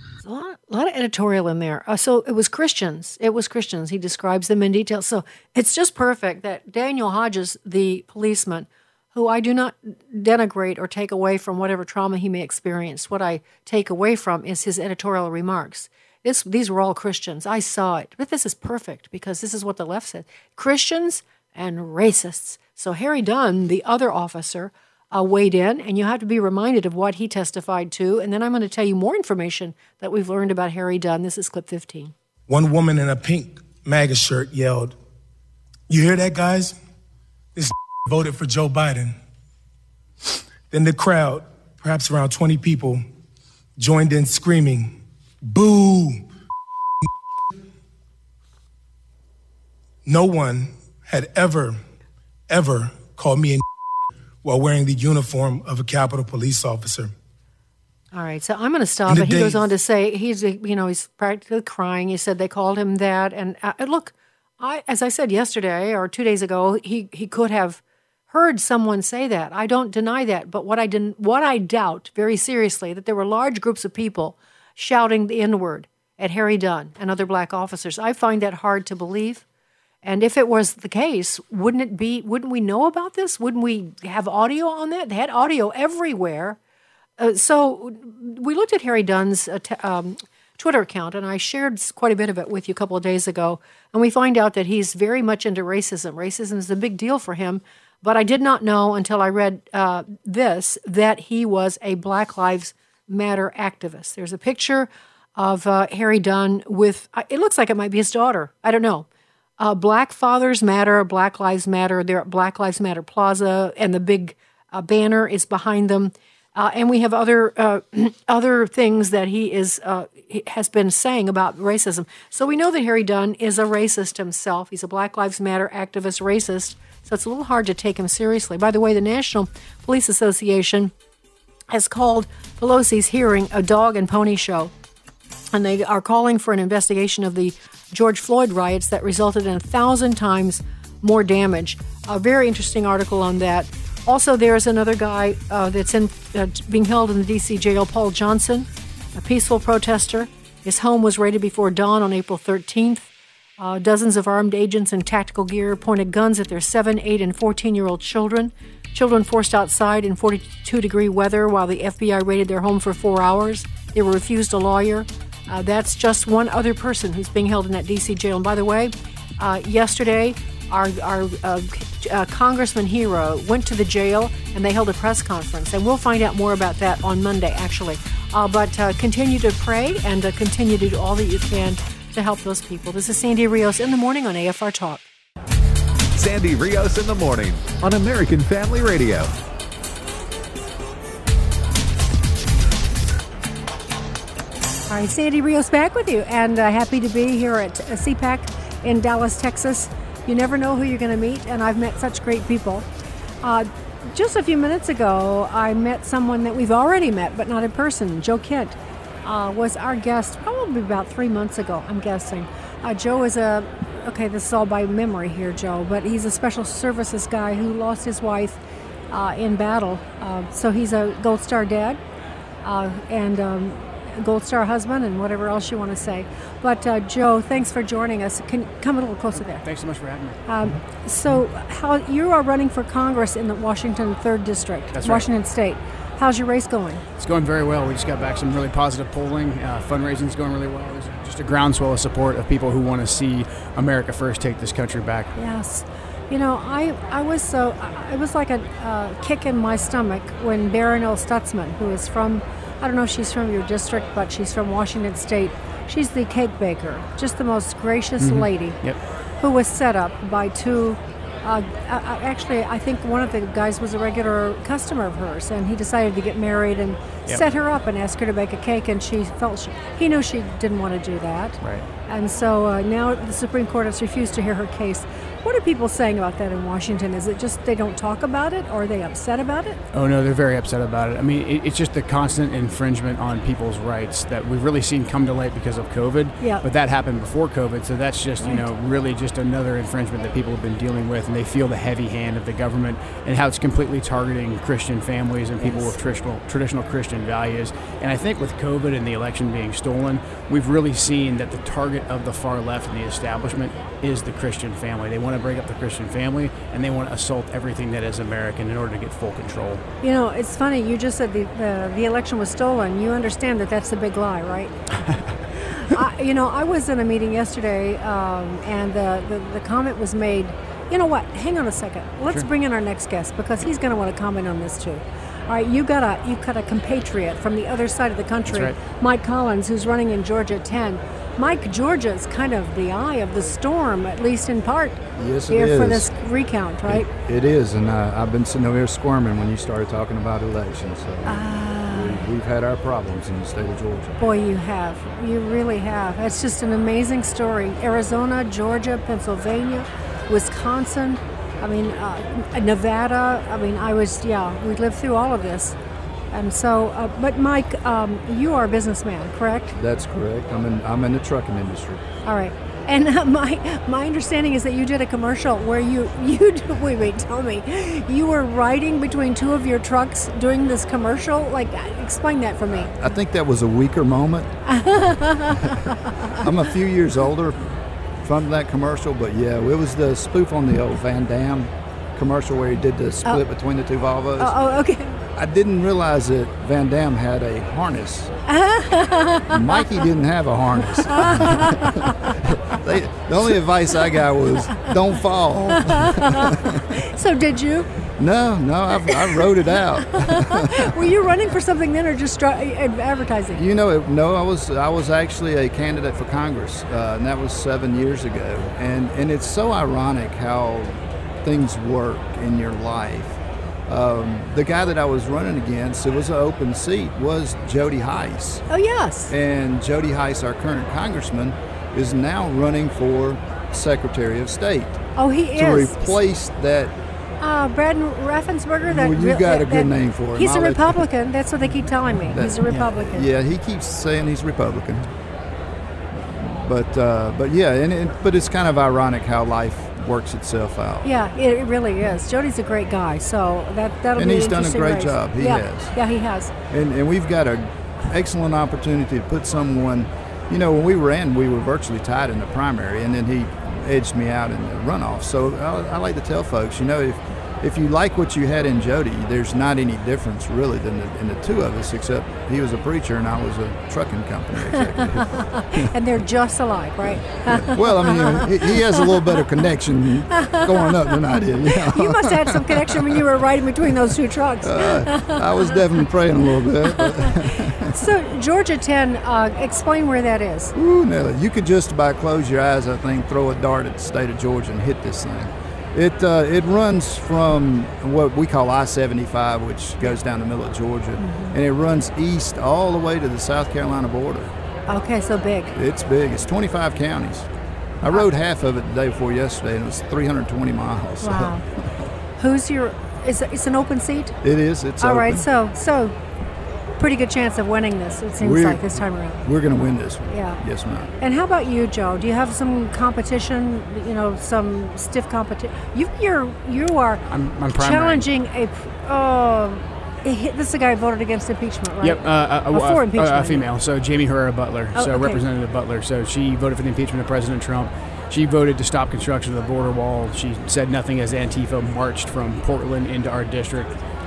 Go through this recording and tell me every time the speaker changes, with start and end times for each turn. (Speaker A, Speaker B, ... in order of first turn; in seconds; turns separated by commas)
Speaker A: 0.2-32.1, Speaker B: 32.5-34.9, Speaker B: 35.9-36.8, Speaker B: 37.5-39.2, Speaker B: 40.7-43.0, Speaker B: 43.8-45.0, Speaker B: 45.5-46.2, Speaker B: 50.0-51.8, Speaker B: 52.5-53.6, Speaker B: 54.4-57.1, Speaker A: 58.1-79.4, Speaker B: 59.1-59.6, Speaker A: 80.0-86.6, Speaker A: 87.2-109.1, Speaker A: 109.6-130.9, Speaker A: 131.7-134.7, Speaker A: 135.5-185.0, Speaker C: 186.2-189.3, Speaker A: 194.9-202.9, Speaker A: 203.4-218.6, Speaker A: 219.1-222.0, Speaker A: 222.6-229.6, Speaker D: 229.5-230.4, Speaker A: 230.5-237.0, Speaker D: 234.9-235.3, Speaker D: 237.2-245.3, Speaker A: 245.3-258.8, Speaker D: 258.2-259.0, Speaker A: 259.4-279.8, Speaker D: 271.6-271.9, Speaker D: 279.9-309.8, Speaker A: 286.4-286.6, Speaker A: 295.6-296.0, Speaker A: 310.0-314.8, Speaker A: 315.6-337.1, Speaker D: 328.4-328.8, Speaker E: 335.2-336.1, Speaker E: 336.9-344.2, Speaker A: 341.2-342.3, Speaker A: 344.2-355.8, Speaker A: 356.3-359.7, Speaker E: 359.7-362.0, Speaker A: 362.2-372.9, Speaker E: 372.7-374.5, Speaker A: 374.7-376.5, Speaker E: 376.4-384.6, Speaker A: 384.4-385.2, Speaker E: 385.3-388.3, Speaker A: 388.5-389.8, Speaker E: 389.5-396.8, Speaker A: 390.8-392.4, Speaker A: 395.6-397.9, Speaker E: 398.2-401.1, Speaker A: 400.1-403.6, Speaker E: 403.6-418.6, Speaker A: 418.7-419.3, Speaker E: 419.3-425.0, Speaker A: 425.2-426.1, Speaker E: 425.5-426.9, Speaker A: 427.4-433.3, Speaker E: 428.8-431.1, Speaker E: 432.3-435.1, Speaker E: 436.1-441.1, Speaker A: 441.0-446.5, Speaker E: 444.1-445.9, Speaker E: 446.7-465.8, Speaker A: 465.0-469.4, Speaker E: 467.0-473.2, Speaker A: 470.4-475.8, Speaker E: 474.6-478.0, Speaker A: 476.7-480.7, Speaker E: 480.7-494.5, Speaker A: 491.2-491.6, Speaker A: 494.9-495.7, Speaker E: 495.7-497.5, Speaker E: 498.0-501.6, Speaker A: 501.2-501.6, Speaker A: 502.4-504.4, Speaker E: 504.4-505.5, Speaker A: 505.0-506.1, Speaker A: 506.9-509.4, Speaker E: 508.4-511.1, Speaker A: 510.3-510.6, Speaker A: 511.2-517.2, Speaker D: 517.3-518.2, Speaker A: 517.8-523.6, Speaker D: 522.0-533.9, Speaker A: 524.9-525.4